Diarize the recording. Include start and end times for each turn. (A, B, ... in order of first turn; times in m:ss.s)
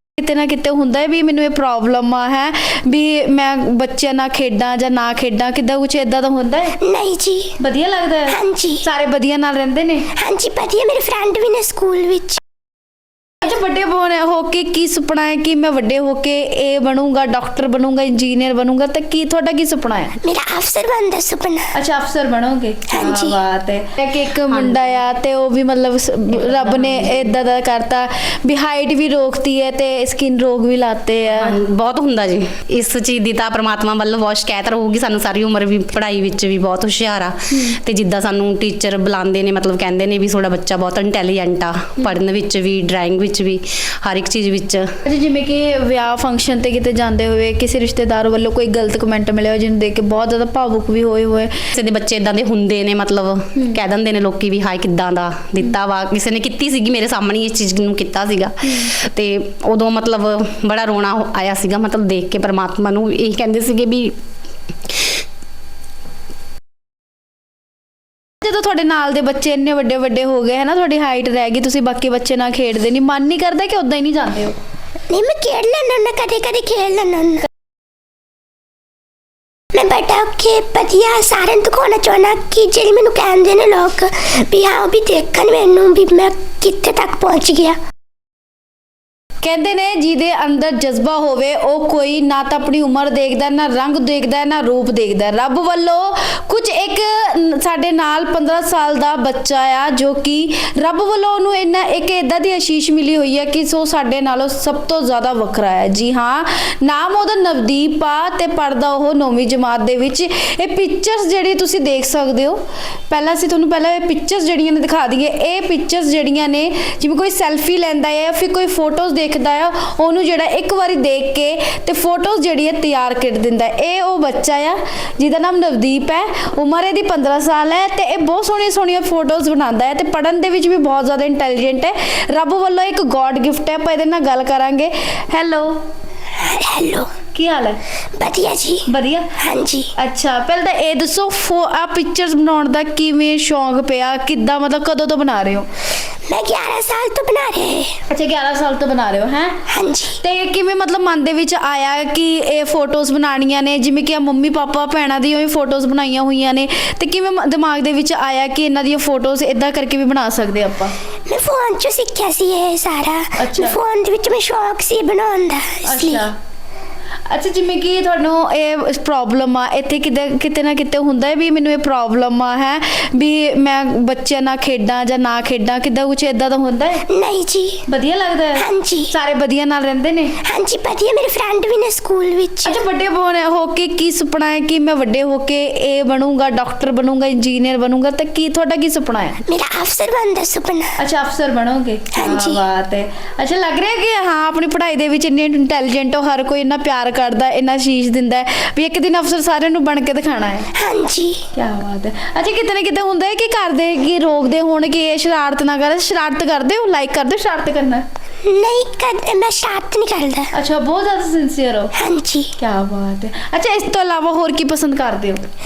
0:00.2-0:06.8 A
0:06.8-0:07.6 B
0:07.6-0:10.1 A
0:08.3-0:08.8 B
0:10.2-0:12.4 B
0:13.4-0:20.2 A
0:20.2-0:21.7 B
0:21.7-0:31.6 A
0:22.9-0:23.4 B
0:24.5-0:25.0 C
0:26.3-0:27.4 C
0:31.3-0:44.9 C
0:37.5-0:37.8 A
0:45.0-0:51.6 A
0:51.7-1:04.2 C
0:58.6-0:58.9 A
1:08.4-1:14.6 A
1:15.1-1:17.4 B
1:19.7-1:27.8 B
1:29.4-2:15.8 A
2:16.4-2:17.1 B
2:17.3-2:17.8 A
2:18.2-2:18.9 B
2:18.9-2:19.4 A
2:19.4-2:19.9 B
2:20.0-2:25.7 A
2:26.3-2:27.9 B
2:28.1-2:29.6 A
2:29.7-2:30.2 B
2:30.2-2:40.9 A
2:41.3-2:46.2 B
2:43.4-2:43.8 A
2:45.8-2:46.3 A
2:47.3-2:57.0 A
2:57.1-2:57.8 B
2:57.9-3:00.4 A
2:58.6-2:59.1 B
3:00.4-3:02.7 B
3:02.6-3:09.4 A
3:09.5-3:10.9 B
3:11.0-3:20.7 A
3:12.1-3:12.6 B
3:20.7-3:21.4 B
3:21.5-3:28.0 A
3:28.4-3:30.5 B
3:30.5-3:31.9 A
3:31.9-3:32.5 B
3:32.6-3:35.4 A